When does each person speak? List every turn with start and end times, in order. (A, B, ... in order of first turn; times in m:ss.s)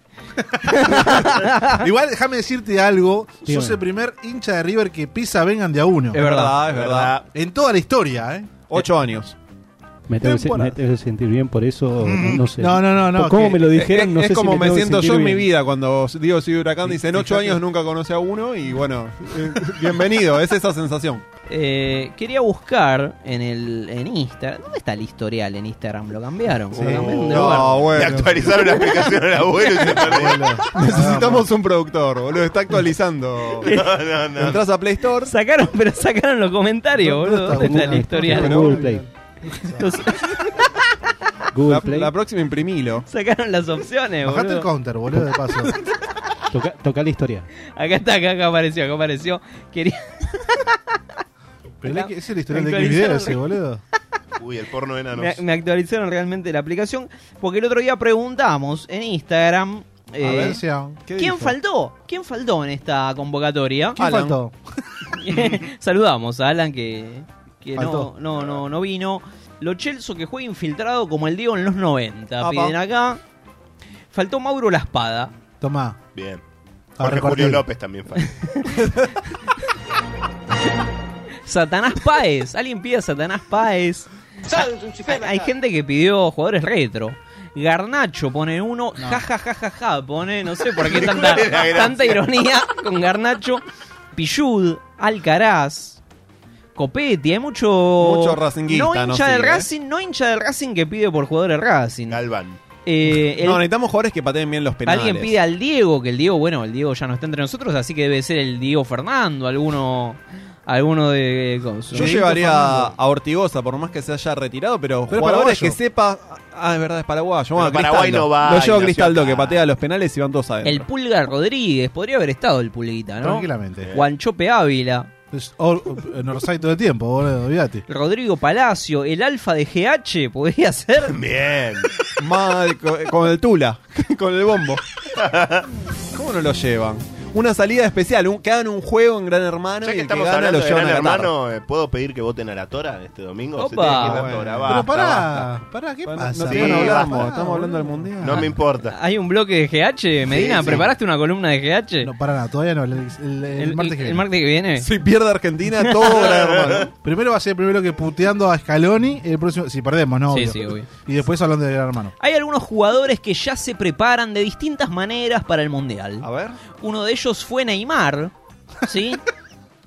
0:00.6-0:06.2 A
0:00.7-0:01.8 B
0:03.5-0:03.8 C
0:06.1-0:06.6 B
0:06.1-0:07.2 D
0:06.7-0:07.2 E
0:07.3-0:08.6 A
0:08.7-0:09.4 D
0:10.1-0:15.5 C
0:10.2-0:10.8 A
0:12.6-0:13.6 A
0:13.7-0:21.2 D
0:16.9-0:17.6 A
0:21.5-0:27.8 B
0:26.8-0:27.7 A
0:26.8-0:28.6 D
0:27.9-0:30.6 E
0:29.8-0:33.7 D
0:30.1-0:31.5 A
0:33.6-0:33.9 B
0:33.6-0:34.6 E
0:34.4-0:35.3 D
0:35.2-0:38.7 B
0:37.0-0:40.0 A
0:37.6-0:39.0 C
0:38.2-0:38.8 D
0:39.8-0:40.6 B
0:41.5-0:42.1 C
0:41.7-0:43.0 D
0:43.1-0:44.7 B
0:44.2-0:45.7 A
0:46.5-0:47.5 C
0:47.8-0:50.8 B
0:51.8-0:53.8 A
0:51.8-0:53.4 B
0:54.4-0:55.4 E
0:55.2-1:00.6 B
1:00.2-1:01.0 A
1:00.3-1:00.5 D
1:01.1-1:01.5 D
1:01.2-1:04.0 B
1:04.0-1:04.6 A
1:04.0-1:04.4 D
1:05.1-1:13.2 B
1:07.8-1:08.1 A
1:12.4-1:12.8 D
1:14.1-1:15.3 B
1:15.6-1:16.0 A
1:16.2-1:16.4 E
1:17.0-1:17.6 A
1:17.0-1:18.4 E
1:21.5-1:33.6 B
1:30.8-1:32.2 E
1:34.2-1:36.0 B
1:36.8-1:42.2 B
1:38.0-1:39.7 D
1:42.1-1:42.6 E
1:42.9-1:43.6 B
1:43.4-1:45.4 D
1:44.9-1:52.2 B
1:51.9-2:00.9 D
1:52.0-1:52.9 A
1:55.1-1:55.8 A
1:57.6-1:59.6 E
2:00.6-2:05.1 B
2:03.2-2:03.9 A
2:05.3-2:07.8 A
2:07.9-2:11.2 B
2:11.1-2:11.9 E
2:12.2-2:14.8 D
2:15.2-2:15.6 E
2:16.1-2:21.3 D
2:19.8-2:25.5 E
2:23.6-2:24.2 B
2:24.0-2:24.9 D
2:24.7-2:28.5 A
2:26.1-2:28.5 D
2:26.5-2:27.3 E
2:28.2-2:28.9 E
2:28.9-2:32.1 B
2:30.3-2:30.9 E
2:32.0-2:34.2 A
2:33.6-2:34.9 B
2:34.8-2:36.9 D
2:36.0-2:36.9 E
2:37.0-2:42.1 A
2:40.3-2:40.9 B
2:42.2-2:46.3 B
2:46.2-2:46.6 D
2:46.8-2:48.3 B
2:48.9-2:49.2 B